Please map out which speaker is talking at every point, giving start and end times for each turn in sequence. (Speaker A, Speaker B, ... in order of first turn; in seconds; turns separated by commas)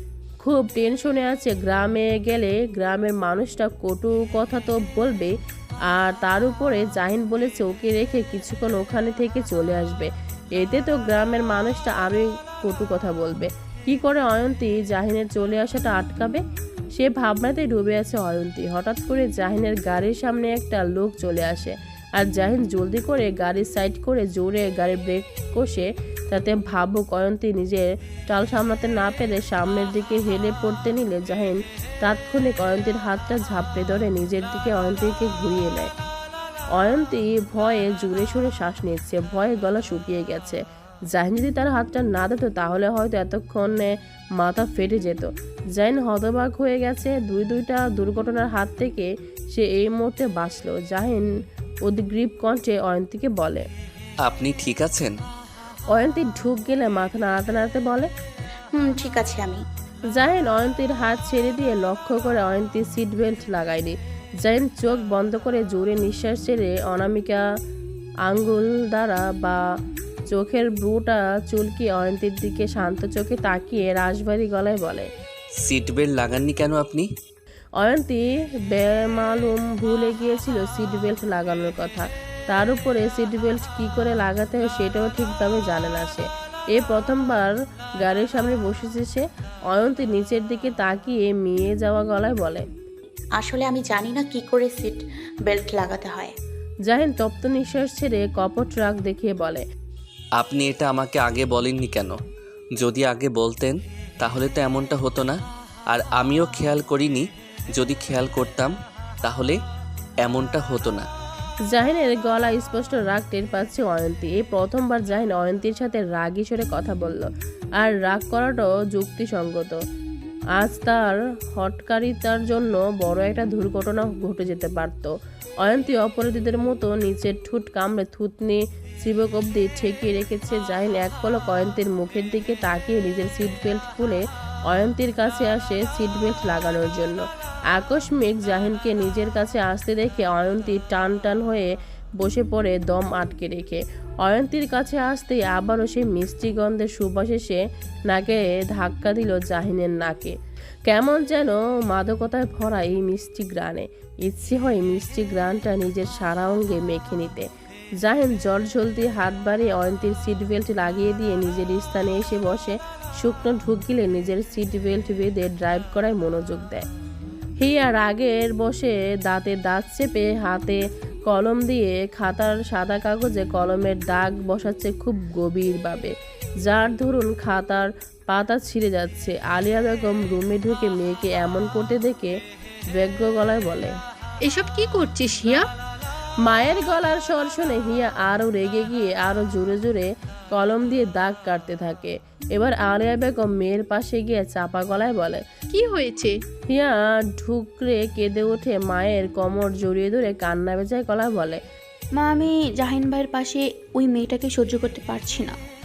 Speaker A: 0.4-5.3, Speaker A: 5.9-16.4, Speaker A: 16.9-35.9, Speaker A: 36.8-51.2, Speaker A: 51.9-53.7, Speaker B: 54.2-55.1, Speaker A: 55.9-58.1, Speaker C: 58.8-59.6, Speaker A: 60.1-67.4, Speaker A: 68.2-69.6, Speaker A: 70.3-75.1, Speaker B: 75.6-77.1, Speaker A: 77.8-92.7, Speaker C: 93.4-96.3, Speaker A: 96.9-99.6, Speaker B: 100.4-102.2, Speaker B: 102.8-105.4, Speaker B: 105.9-108.7, Speaker B: 109.2-109.5, Speaker B: 110.2-111.1, Speaker A: 111.7-119.8, Speaker A: 120.6-150.3, Speaker A: 150.9-157.5, Speaker A: 158.0-166.9, Speaker A: 167.6-176.1, Speaker A: 176.6-182.3, Speaker A: 182.9-183.9, Speaker D: 184.4-185.7, Speaker A: 186.4-195.4, Speaker D: 195.7-196.4, Speaker A: 196.7-201.6, Speaker E: 202.1-205.6